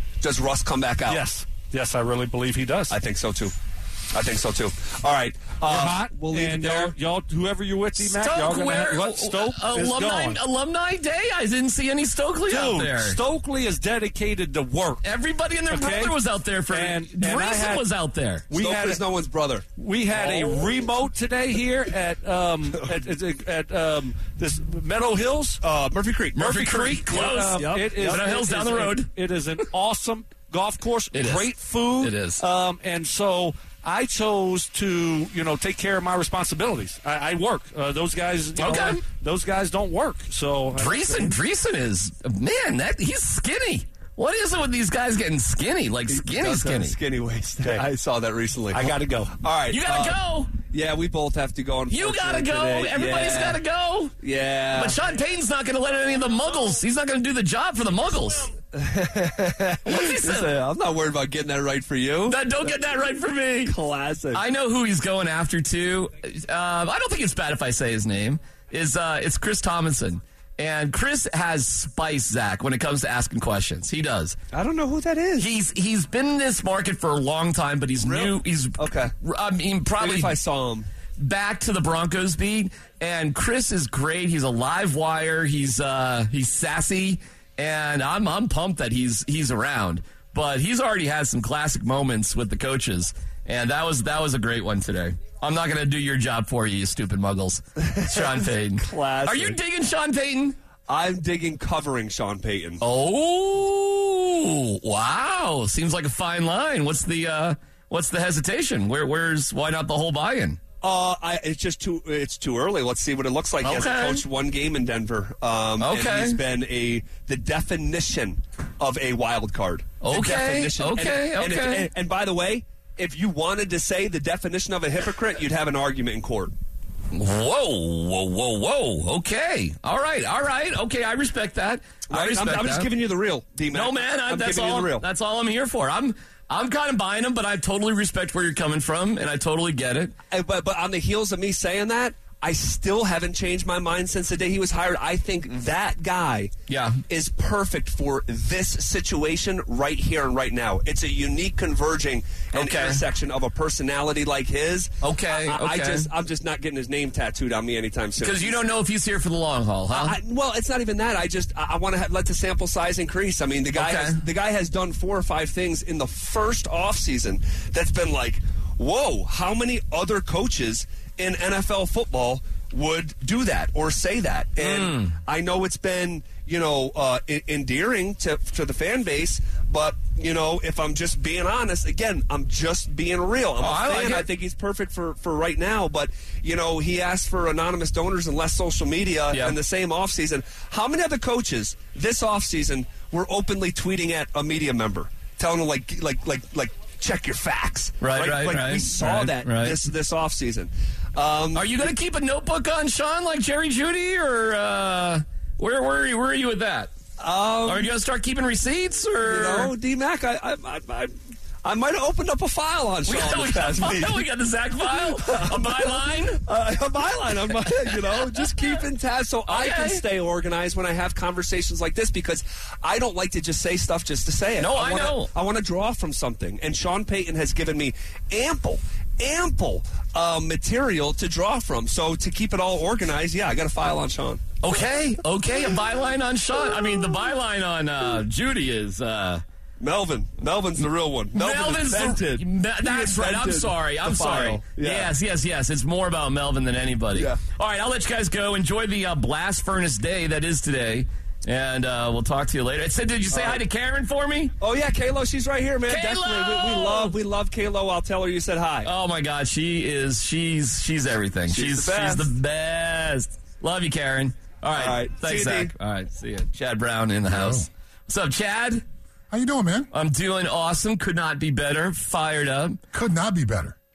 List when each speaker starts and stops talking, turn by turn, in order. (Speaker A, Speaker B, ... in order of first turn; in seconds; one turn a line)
Speaker A: 0.2-1.3
Speaker B: 1.1-3.0
Speaker A: 2.9-3.5
Speaker A: 4.1-6.9
Speaker B: 5.6-10.4
Speaker C: 8.0-13.2
Speaker B: 12.5-15.0
Speaker C: 15.0-18.4
Speaker B: 15.7-16.2
Speaker B: 16.7-17.9
Speaker B: 18.5-19.0
Speaker A: 18.5-20.7
Speaker B: 19.7-25.6
Speaker A: 25.6-28.2
Speaker C: 26.4-29.1
Speaker B: 26.4-41.4
Speaker C: 31.1-32.4
Speaker C: 38.6-39.0
Speaker C: 40.8-47.0
Speaker A: 46.1-53.6
Speaker B: 47.6-47.9
Speaker B: 48.7-49.4
Speaker C: 49.7-50.5
Speaker C: 51.9-54.1
Speaker A: 54.2-55.0
Speaker C: 54.7-58.5
Speaker A: 58.7-62.6
Speaker C: 59.9-60.5
Speaker C: 62.3-63.7
Speaker A: 63.6-64.4
Speaker C: 64.3-74.4
Speaker A: 74.5-75.5
Speaker C: 75.4-80.3
Speaker A: 78.0-79.1
Speaker A: 80.0-80.9
Speaker C: 81.2-100.6
Speaker A: 97.8-99.6
Speaker A: 100.9-102.8
Speaker C: 102.8-110.6
Speaker A: 110.8-126.5
Speaker C: 113.6-114.2
Speaker C: 115.8-116.4
Speaker C: 120.0-121.9
Speaker C: 127.1-132.9
Speaker A: 132.1-135.1
Speaker C: 133.7-140.1
Speaker A: 140.3-146.5
Speaker C: 146.7-147.0
Speaker A: 147.1-158.6
Speaker C: 152.5-153.0
Speaker C: 155.0-156.1
Speaker C: 158.2-160.2
Speaker A: 159.9-201.9
Speaker C: 163.7-164.2
Speaker C: 174.6-175.2
Speaker C: 183.6-184.3
Speaker C: 198.0-199.8
Speaker C: 201.5-206.9
Speaker A: 207.2-207.9
Speaker C: 207.6-209.7
Speaker A: 209.2-211.1
Speaker A: 211.6-214.2
Speaker C: 213.1-216.4
Speaker A: 215.0-234.4
Speaker C: 217.7-218.8
Speaker C: 219.5-220.0
Speaker C: 224.6-225.3
Speaker C: 234.6-239.4
Speaker A: 239.8-245.1
Speaker C: 241.3-254.5
Speaker A: 247.1-247.4
Speaker A: 253.3-253.6
Speaker A: 254.6-258.9
Speaker C: 255.9-257.1
Speaker C: 258.8-268.8
Speaker A: 261.5-262.3
Speaker A: 264.8-265.7
Speaker D: 267.2-267.7
Speaker D: 269.3-269.9
Speaker C: 269.9-272.8
Speaker D: 272.9-273.8